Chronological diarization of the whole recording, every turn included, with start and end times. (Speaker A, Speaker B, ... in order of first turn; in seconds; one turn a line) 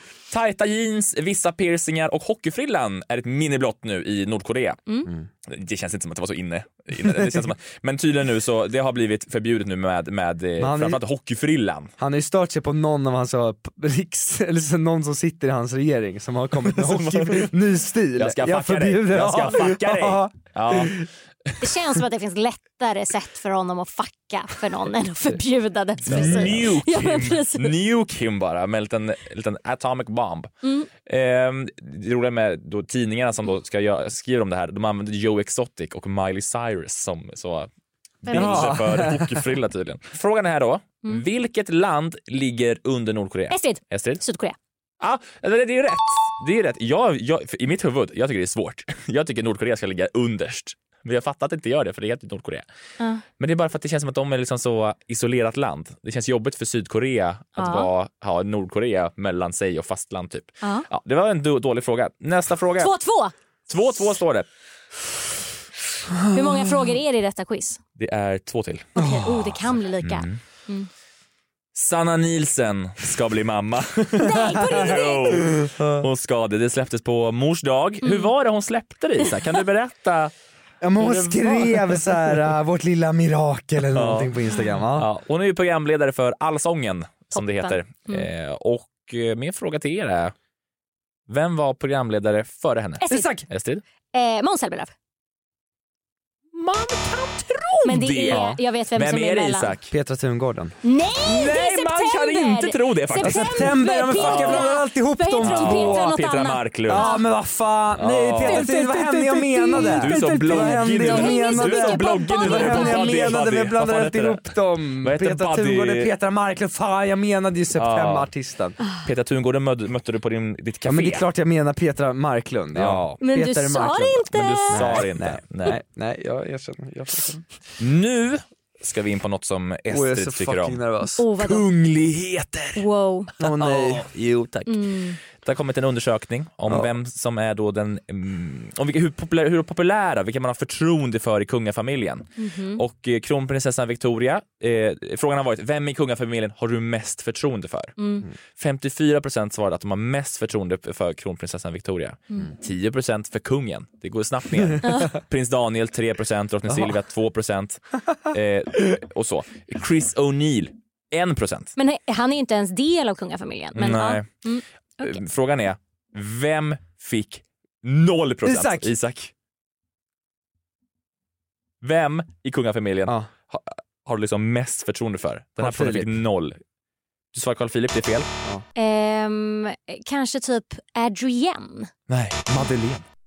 Speaker A: 0.3-4.8
Speaker A: 5.5-11.9
Speaker B: 10.6-11.0
Speaker B: 12.0-21.1
Speaker A: 16.7-17.6
Speaker A: 18.2-21.1
Speaker C: 21.6-27.7
Speaker A: 26.1-30.5
Speaker B: 26.1-26.6
Speaker C: 30.6-30.9
Speaker A: 31.0-37.7
Speaker C: 38.2-38.8
Speaker A: 38.3-44.2
Speaker B: 38.3-39.5
Speaker C: 43.5-44.5
Speaker A: 45.0-52.6
Speaker A: 53.4-62.9
Speaker C: 57.6-57.9
Speaker C: 62.8-63.3
Speaker A: 63.7-64.5
Speaker B: 66.1-66.7
Speaker C: 66.3-67.8
Speaker A: 68.0-69.4
Speaker C: 69.0-70.9
Speaker B: 69.0-69.3
Speaker A: 70.0-70.4
Speaker A: 71.7-80.3
Speaker C: 74.2-75.4
Speaker B: 75.5-76.1
Speaker C: 78.0-78.3
Speaker B: 80.8-85.1
Speaker A: 81.0-82.4
Speaker A: 83.9-84.4
Speaker A: 84.9-90.3
Speaker C: 87.3-88.3
Speaker A: 91.3-93.8
Speaker C: 93.0-93.3
Speaker B: 93.1-93.4
Speaker C: 94.1-94.9
Speaker A: 96.5-99.9
Speaker C: 97.8-99.7
Speaker B: 98.3-98.5
Speaker B: 99.9-100.8
Speaker C: 100.8-107.2
Speaker A: 101.2-104.7
Speaker B: 103.2-106.1
Speaker A: 105.4-107.2
Speaker B: 106.9-118.8
Speaker A: 108.0-108.7
Speaker C: 108.5-109.0
Speaker C: 109.5-110.0
Speaker A: 109.7-116.1
Speaker C: 110.5-113.4
Speaker A: 117.7-118.3
Speaker A: 119.0-121.2
Speaker B: 120.8-127.4
Speaker A: 122.7-123.1
Speaker C: 123.2-125.0
Speaker A: 124.3-125.8
Speaker A: 127.8-130.8
Speaker B: 129.9-132.6
Speaker C: 131.2-131.6
Speaker A: 132.1-132.8
Speaker C: 132.8-133.3
Speaker B: 133.4-134.4
Speaker A: 133.4-134.7
Speaker C: 134.7-135.2
Speaker A: 135.3-147.9
Speaker C: 142.4-142.8
Speaker C: 148.0-148.2
Speaker A: 148.5-161.7
Speaker C: 154.8-155.1
Speaker B: 156.7-156.9
Speaker C: 161.8-165.2
Speaker A: 163.7-164.3
Speaker A: 165.0-169.3
Speaker B: 168.4-168.9
Speaker A: 171.8-176.6
Speaker B: 175.6-176.2
Speaker A: 177.3-178.3
Speaker C: 178.8-181.9
Speaker A: 182.1-183.0